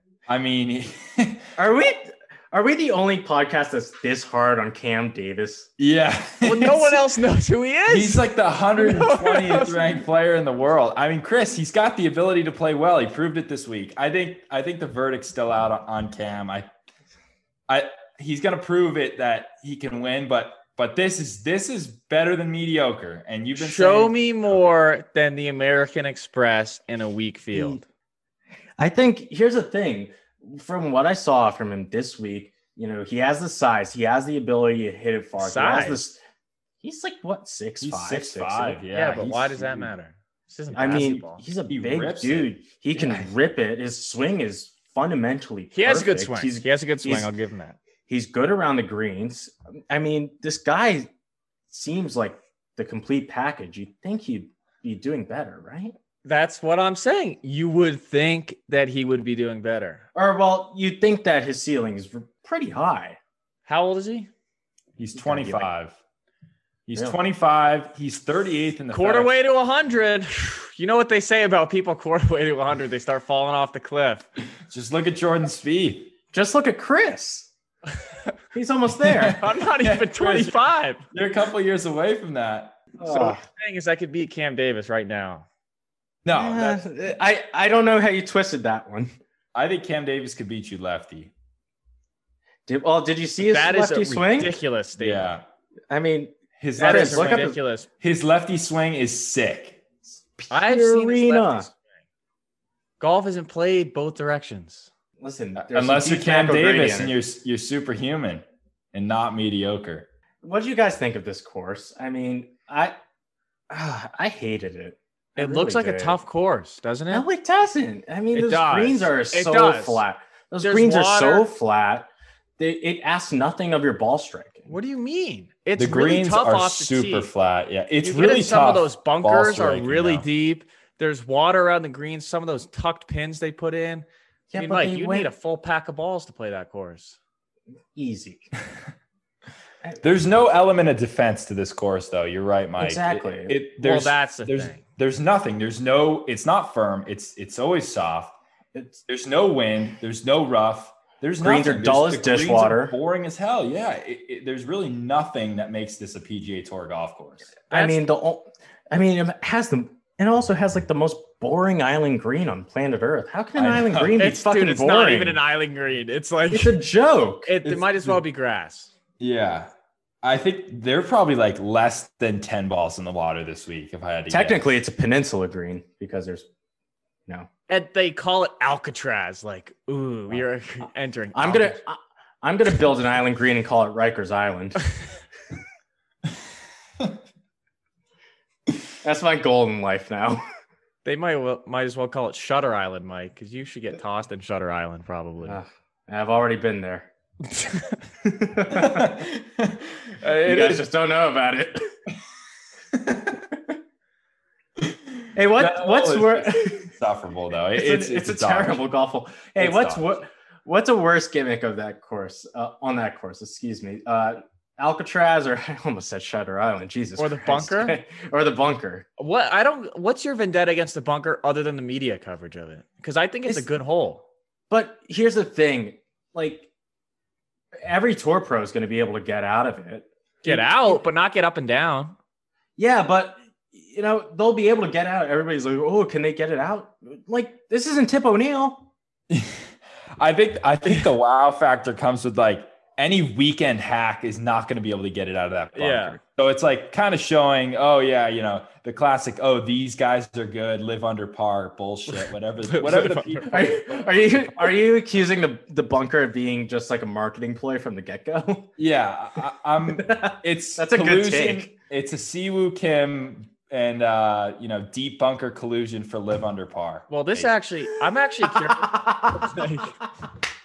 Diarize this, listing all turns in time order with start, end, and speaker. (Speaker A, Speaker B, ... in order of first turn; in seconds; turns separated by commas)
Speaker A: 0.3-1.5, Speaker B: 1.6-5.7, Speaker A: 5.8-7.0, Speaker C: 6.4-8.2, Speaker A: 7.9-16.7, Speaker C: 8.8-10.0, Speaker A: 17.7-24.1, Speaker C: 23.6-27.8, Speaker B: 27.5-27.8, Speaker B: 28.8-36.2, Speaker C: 35.4-36.0, Speaker B: 36.8-38.8, Speaker A: 37.8-39.9, Speaker C: 38.9-41.4, Speaker B: 40.7-47.3, Speaker A: 40.9-43.3, Speaker C: 45.7-47.8, Speaker B: 48.1-51.1, Speaker B: 51.7-55.9, Speaker C: 56.2-60.0, Speaker B: 60.1-63.2, Speaker C: 63.6-64.3, Speaker A: 65.0-66.0, Speaker B: 65.2-65.7, Speaker A: 66.9-69.3, Speaker C: 68.9-74.3, Speaker A: 74.7-76.1, Speaker B: 76.3-77.5, Speaker B: 78.5-79.4, Speaker A: 79.0-82.8, Speaker C: 79.3-81.0, Speaker B: 83.0-83.4, Speaker C: 83.0-85.5, Speaker A: 86.2-86.9, Speaker B: 86.3-89.1, Speaker A: 89.5-91.3, Speaker B: 92.7-94.5, Speaker C: 93.5-95.3, Speaker A: 95.0-95.4, Speaker B: 95.9-97.5, Speaker A: 96.6-99.8, Speaker C: 96.8-97.9, Speaker B: 100.4-101.7, Speaker C: 100.5-101.8, Speaker C: 103.0-104.9, Speaker B: 105.2-107.1, Speaker A: 105.6-110.1, Speaker B: 110.4-113.0, Speaker B: 113.7-116.2, Speaker C: 115.4-117.3, Speaker B: 117.1-124.7, Speaker C: 118.3-120.0, Speaker C: 120.6-121.5, Speaker C: 124.7-127.3, Speaker A: 125.8-130.2, Speaker C: 128.0-137.2, Speaker B: 134.5-135.3, Speaker B: 137.9-138.5, Speaker A: 140.0-148.3, Speaker B: 142.8-143.6, Speaker C: 143.8-144.8, Speaker B: 148.7-149.0, Speaker A: 149.1-157.6, Speaker B: 151.4-152.9, Speaker C: 157.7-158.0, Speaker B: 157.7-165.4, Speaker A: 163.6-164.2, Speaker C: 164.2-166.8, Speaker B: 166.5-167.5, Speaker C: 167.4-168.9, Speaker A: 167.6-168.2, Speaker A: 169.2-169.7, Speaker A: 170.2-174.7, Speaker B: 174.3-176.5, Speaker C: 177.7-181.8, Speaker B: 181.3-184.9, Speaker B: 189.0-190.4, Speaker C: 191.0-195.6, Speaker B: 195.4-197.1, Speaker C: 197.6-197.9, Speaker B: 198.2-199.2, Speaker A: 198.7-200.8, Speaker B: 200.4-201.9, Speaker A: 203.0-203.3, Speaker B: 205.3-206.9, Speaker A: 205.5-208.8, Speaker B: 207.7-219.1, Speaker A: 209.6-210.1, Speaker C: 217.2-218.0, Speaker C: 219.2-224.2, Speaker B: 224.7-226.7, Speaker B: 227.8-231.0, Speaker C: 230.4-232.2, Speaker B: 232.8-238.9, Speaker A: 239.3-254.2, Speaker C: 245.8-246.2, Speaker C: 252.1-253.6, Speaker B: 253.4-258.7, Speaker A: 258.8-267.5, Speaker B: 259.9-261.7, Speaker C: 267.1-269.9, Speaker B: 268.5-269.5